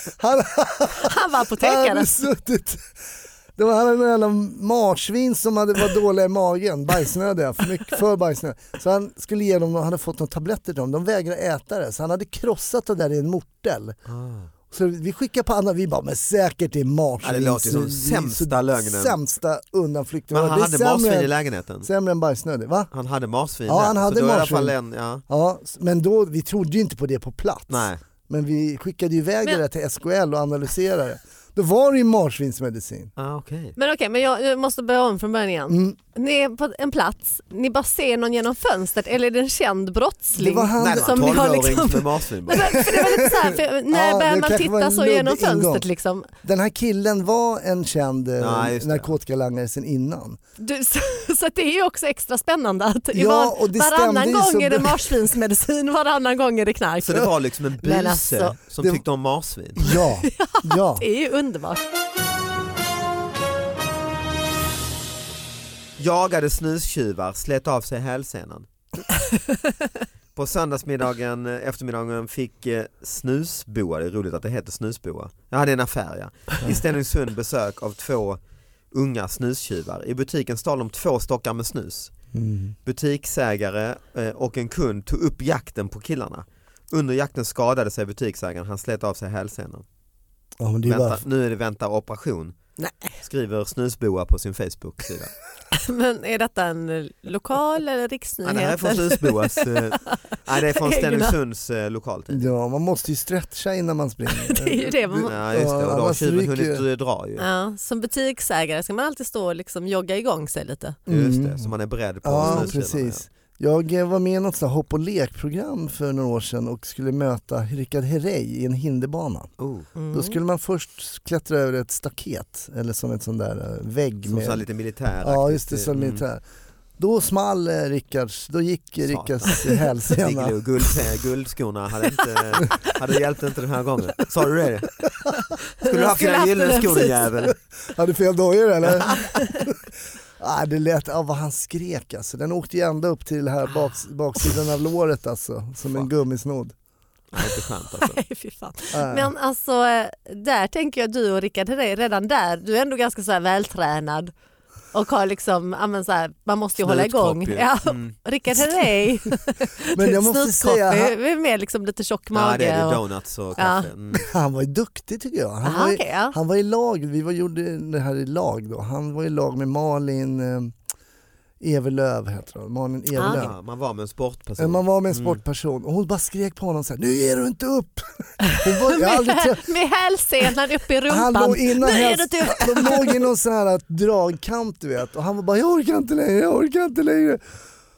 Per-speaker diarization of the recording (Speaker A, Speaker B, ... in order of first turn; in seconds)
Speaker A: 0.2-2.9, 3.6-14.0, 14.7-22.9, 23.7-24.8, 25.3-33.1, 35.7-36.0, 40.4-41.5, 42.7-45.9, 46.4-50.4, 53.1-55.1, 59.8-61.1, 82.3-82.8, 90.6-91.2, 102.3-106.8, 111.1-111.7, 112.2-119.5, 120.1-124.7, 125.2-126.4, 127.0-130.6, 137.9-139.8, 140.4-146.7, 148.9-149.3, 159.9-161.2, 164.1-170.7, 171.6-173.5, 174.6-179.7, 181.1-187.4
Speaker B: 1.0-2.1, 33.8-46.3, 50.6-58.6, 60.1-61.8, 69.2-69.6, 92.8-93.2, 95.7-100.2, 100.7-101.4, 104.3-105.3, 107.4-111.0, 112.4-112.7, 120.0-120.4, 135.8-137.3, 139.1-139.7, 147.9-154.3, 154.9-163.0, 163.6-163.9, 165.6-166.4, 173.2-173.4, 178.4-183.3
Speaker C: 14.1-14.5, 17.2-19.2, 20.3-21.9, 22.9-25.2, 27.7-28.0, 33.2-33.8, 40.8-42.8, 48.4-49.1, 57.0-59.9, 66.0-68.7, 70.3-78.4, 78.9-82.1, 82.8-89.8, 90.8-92.6, 93.2-95.3, 98.5-102.5, 105.2-107.5, 111.1-113.2, 119.6-119.9, 124.3-126.2, 129.1-135.1, 135.8-137.6, 138.9-139.2, 147.3-148.2, 156.8-158.2, 162.3-164.3, 173.2-175.4